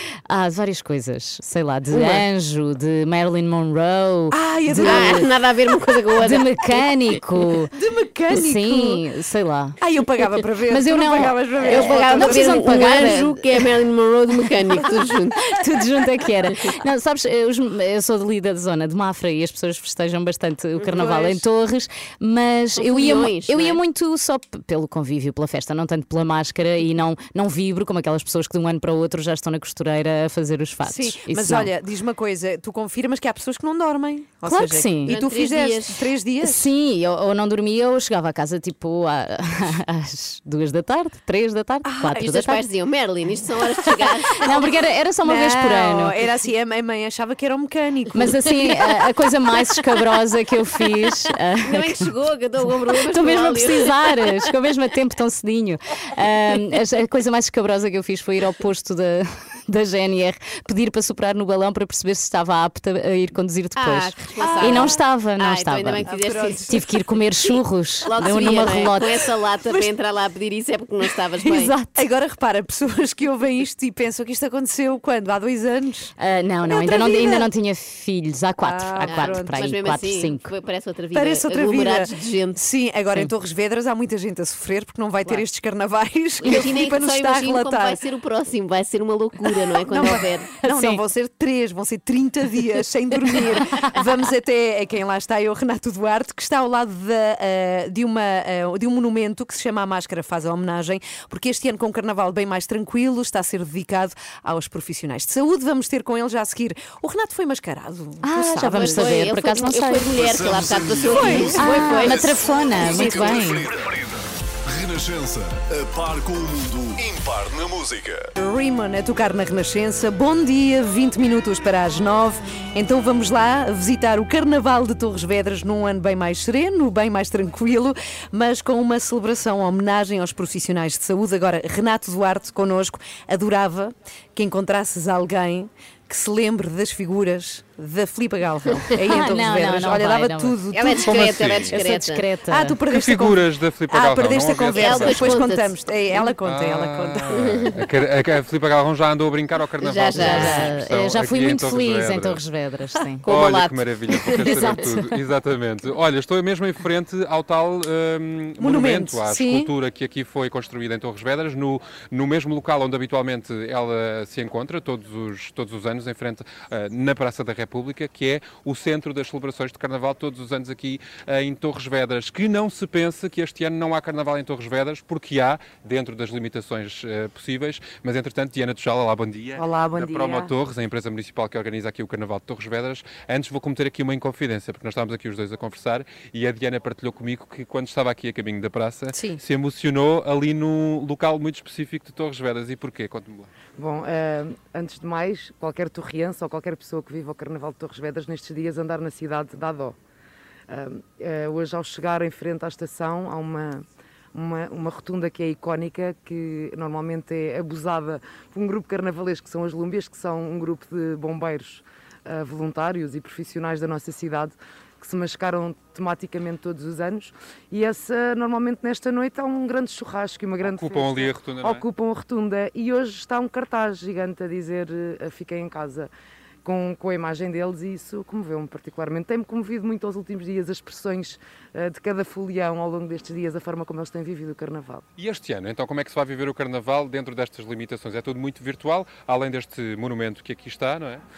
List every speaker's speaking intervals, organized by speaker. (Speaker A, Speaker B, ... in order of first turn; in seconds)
Speaker A: 0.3-5.3, 6.2-7.7, 8.3-9.8, 10.7-13.4, 15.5-31.7, 34.4-35.1, 36.4-42.6, 44.4-46.2, 48.1-52.1, 52.9-66.1, 66.7-69.2, 71.5-72.0, 76.2-80.5, 90.6-91.0, 108.2-110.2, 111.5-113.7, 139.1-140.6, 141.7-142.8, 150.1-153.2, 154.3-155.0
Speaker B: 4.3-5.2, 7.7-9.0, 9.8-13.3, 20.8-21.4, 30.9-36.6, 41.8-42.3, 45.2-48.9, 64.4-65.0, 66.0-67.0, 68.2-68.9, 71.4-76.1, 76.7-77.5, 78.6-79.6, 81.1-88.0, 89.9-109.0, 111.1-111.7, 112.8-113.6, 118.4-141.2, 142.5-147.5, 158.6-159.7, 189.1-189.4
Speaker C: 4.8-6.4, 11.6-15.5, 22.8-23.8, 35.0-36.0, 42.2-44.6, 51.6-54.0, 63.8-66.8, 68.0-71.7, 79.0-82.6, 86.4-90.5, 108.7-112.3, 140.7-142.2, 144.8-145.7, 147.3-147.7, 149.8-150.7, 153.2-154.8
Speaker D: 110.1-118.2
Speaker E: 141.0-141.8, 142.9-145.4, 146.4-152.4, 153.2-193.5, 220.6-221.8, 235.2-241.2
Speaker F: 179.6-180.5, 193.8-199.9, 200.7-226.1, 226.6-235.1